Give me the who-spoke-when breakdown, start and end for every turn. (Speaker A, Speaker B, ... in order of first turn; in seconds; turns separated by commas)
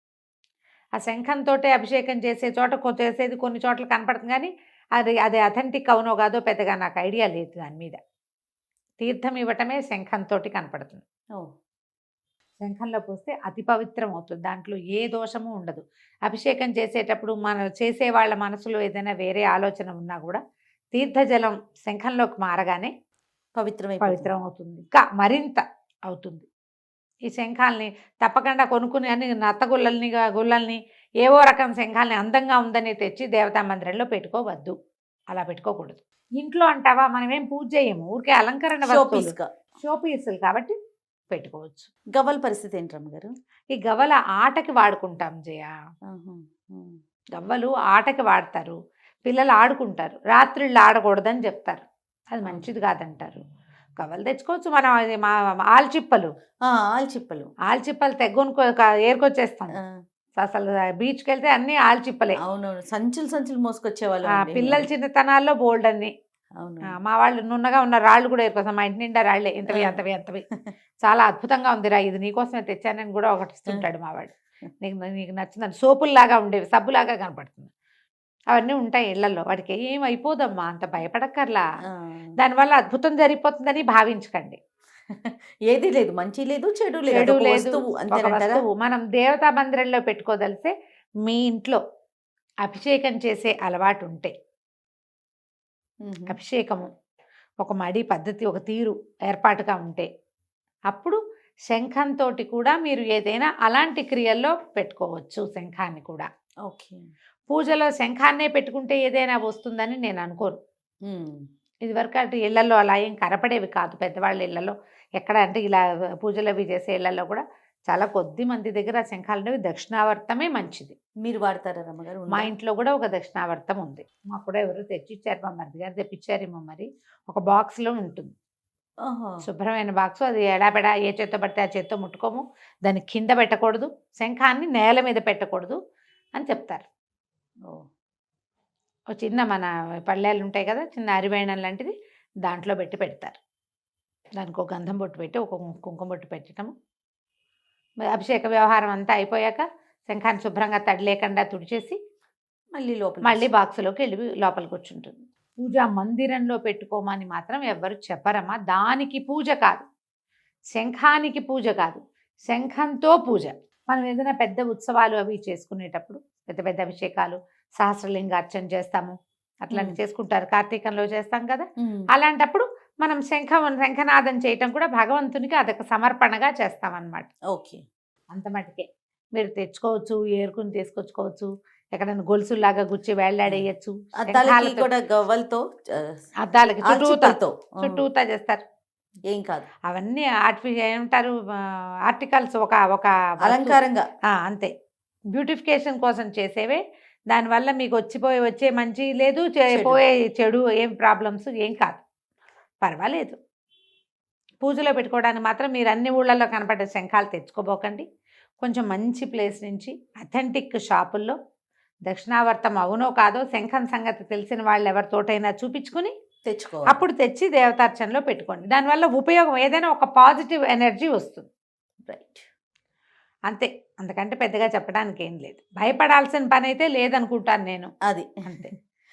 Speaker A: 1.0-8.0, Speaker A: 9.0-11.0, Speaker A: 12.6-20.4, Speaker A: 20.9-22.9, Speaker B: 23.6-24.3, Speaker A: 24.0-26.5, Speaker A: 27.3-34.7, Speaker A: 35.3-40.7, Speaker B: 38.8-39.5, Speaker A: 41.3-41.9, Speaker B: 42.1-43.3, Speaker A: 43.7-45.7, Speaker B: 46.1-47.0, Speaker A: 47.3-53.4, Speaker A: 54.0-56.3, Speaker B: 56.6-57.5, Speaker A: 57.7-59.8, Speaker A: 60.4-62.4, Speaker B: 62.4-64.9, Speaker A: 64.3-66.1, Speaker B: 66.6-66.9, Speaker A: 66.9-70.4, Speaker B: 69.7-70.0, Speaker A: 71.0-77.7, Speaker A: 78.5-81.6, Speaker B: 81.9-82.3, Speaker A: 82.4-84.6, Speaker B: 85.1-88.6, Speaker A: 87.1-90.7, Speaker A: 91.2-91.8, Speaker A: 92.6-94.3, Speaker B: 96.0-96.3, Speaker A: 96.3-96.9, Speaker A: 97.6-100.1, Speaker A: 100.9-101.2, Speaker A: 101.7-106.3, Speaker B: 106.6-107.0, Speaker A: 107.5-110.5, Speaker B: 111.0-111.4, Speaker A: 111.8-121.0, Speaker B: 121.2-122.5, Speaker A: 122.3-128.3, Speaker B: 129.0-129.4, Speaker A: 129.4-135.8, Speaker A: 136.3-136.8, Speaker A: 139.1-141.9, Speaker A: 142.4-143.4, Speaker A: 144.4-146.7, Speaker A: 148.1-151.9, Speaker B: 152.7-153.5, Speaker A: 153.2-159.8, Speaker A: 160.7-177.3, Speaker B: 169.7-170.0, Speaker B: 177.5-177.8, Speaker A: 178.3-184.9, Speaker B: 184.2-186.2, Speaker A: 186.4-188.6, Speaker B: 186.8-188.0, Speaker B: 189.3-189.7, Speaker A: 189.9-194.7, Speaker B: 193.4-194.1, Speaker A: 195.3-196.8, Speaker A: 197.3-202.0, Speaker B: 199.7-200.0, Speaker A: 202.8-203.4, Speaker A: 204.6-208.0, Speaker A: 208.6-211.3, Speaker A: 212.1-216.1, Speaker B: 216.4-217.0, Speaker A: 216.9-221.5, Speaker B: 222.1-222.4, Speaker A: 223.5-227.9, Speaker B: 228.1-228.7, Speaker A: 228.4-228.7